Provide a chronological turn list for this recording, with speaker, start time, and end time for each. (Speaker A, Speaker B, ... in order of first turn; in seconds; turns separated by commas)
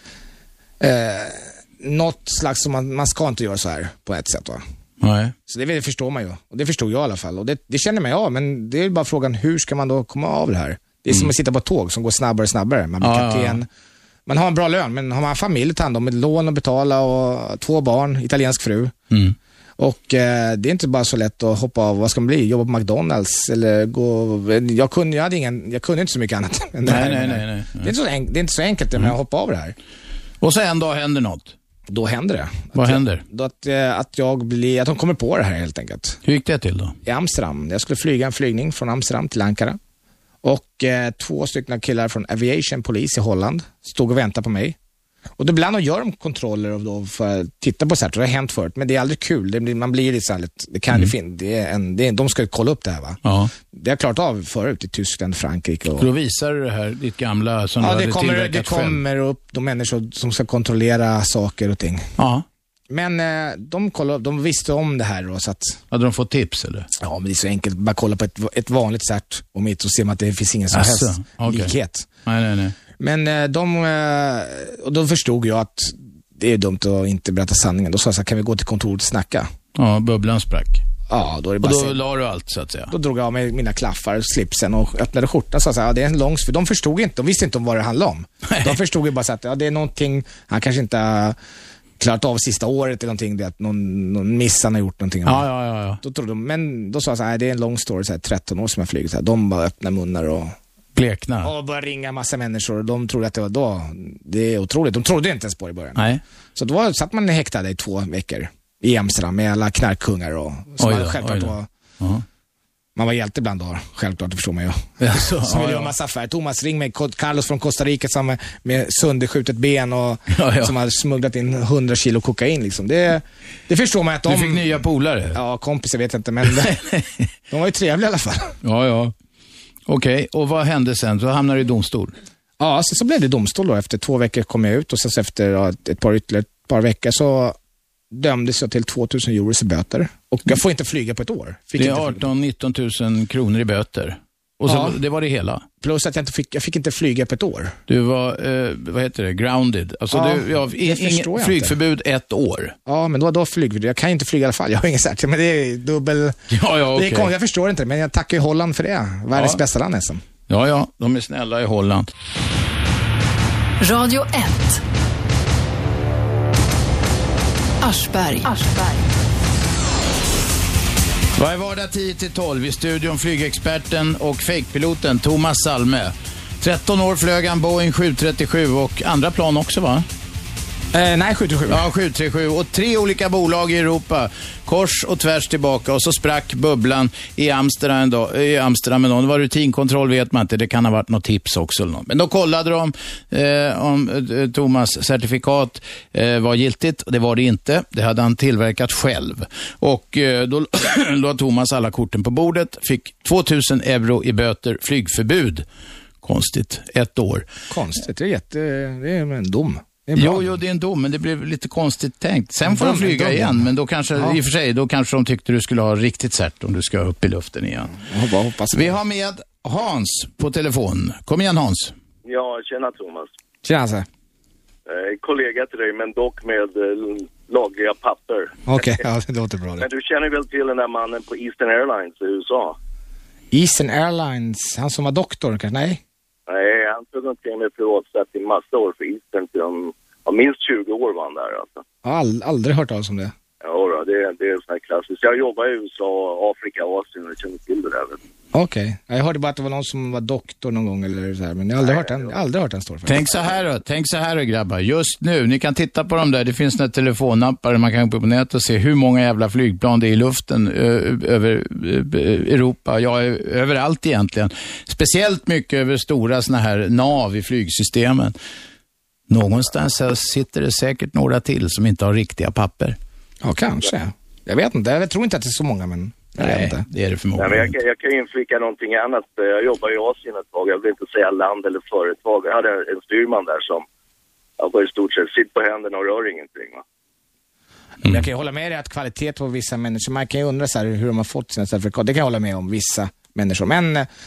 Speaker A: 0.8-4.6, Speaker B: 5.0-5.3, Speaker A: 5.5-13.7, Speaker B: 13.0-13.6, Speaker A: 14.3-18.9, Speaker B: 19.1-19.4, Speaker A: 19.8-29.8, Speaker B: 26.9-27.9, Speaker B: 30.4-31.6, Speaker A: 31.9-36.2, Speaker B: 32.7-33.2, Speaker B: 36.2-36.9, Speaker A: 37.0-39.8, Speaker A: 40.4-44.8, Speaker A: 45.4-53.2, Speaker B: 53.2-53.5, Speaker A: 53.7-56.1, Speaker B: 56.0-59.0, Speaker A: 57.8-62.1, Speaker B: 62.2-62.4, Speaker A: 62.9-65.8, Speaker B: 65.9-66.9, Speaker A: 67.0-72.1, Speaker B: 70.7-71.7, Speaker B: 72.2-72.8, Speaker A: 73.0-79.5, Speaker B: 79.8-80.8, Speaker A: 81.1-82.0, Speaker B: 81.6-82.9, Speaker A: 82.9-91.3, Speaker B: 88.5-88.8, Speaker A: 92.0-95.5, Speaker B: 95.2-96.0, Speaker A: 96.0-100.6, Speaker B: 100.9-101.5, Speaker A: 101.4-106.0, Speaker A: 106.6-111.7, Speaker B: 110.8-112.2, Speaker A: 113.0-124.7, Speaker B: 115.0-115.9, Speaker B: 120.3-120.7, Speaker B: 124.2-125.4, Speaker A: 125.3-126.8, Speaker B: 126.5-127.2, Speaker A: 127.5-128.5, Speaker B: 128.6-129.1, Speaker B: 129.9-132.1, Speaker A: 132.6-137.6, Speaker A: 138.1-142.3, Speaker B: 141.8-145.6, Speaker A: 144.7-145.0, Speaker A: 145.8-147.8, Speaker B: 147.9-152.7, Speaker A: 150.1-151.8, Speaker A: 152.8-156.4, Speaker B: 156.5-157.3, Speaker A: 156.9-160.2, Speaker B: 160.5-162.1, Speaker C: 163.8-164.8, Speaker C: 167.8-169.1, Speaker B: 171.3-180.0, Speaker A: 180.9-181.8, Speaker B: 181.7-205.7, Speaker B: 206.2-207.5, Speaker A: 207.7-210.5, Speaker B: 210.2-217.9, Speaker A: 212.7-214.4, Speaker A: 217.9-219.0, Speaker B: 218.7-221.9, Speaker D: 222.2-223.3, Speaker A: 223.6-224.1, Speaker D: 224.9-228.9, Speaker A: 228.7-229.8, Speaker D: 229.8-232.8, Speaker A: 233.5-236.0, Speaker D: 236.5-241.8, Speaker A: 242.0-243.3, Speaker D: 243.6-248.2, Speaker A: 248.5-253.5, Speaker D: 251.8-252.3, Speaker B: 253.1-268.4, Speaker B: 269.3-273.0, Speaker A: 273.4-276.8, Speaker B: 276.4-277.7, Speaker D: 277.4-283.8, Speaker D: 284.6-286.8, Speaker A: 288.0-294.1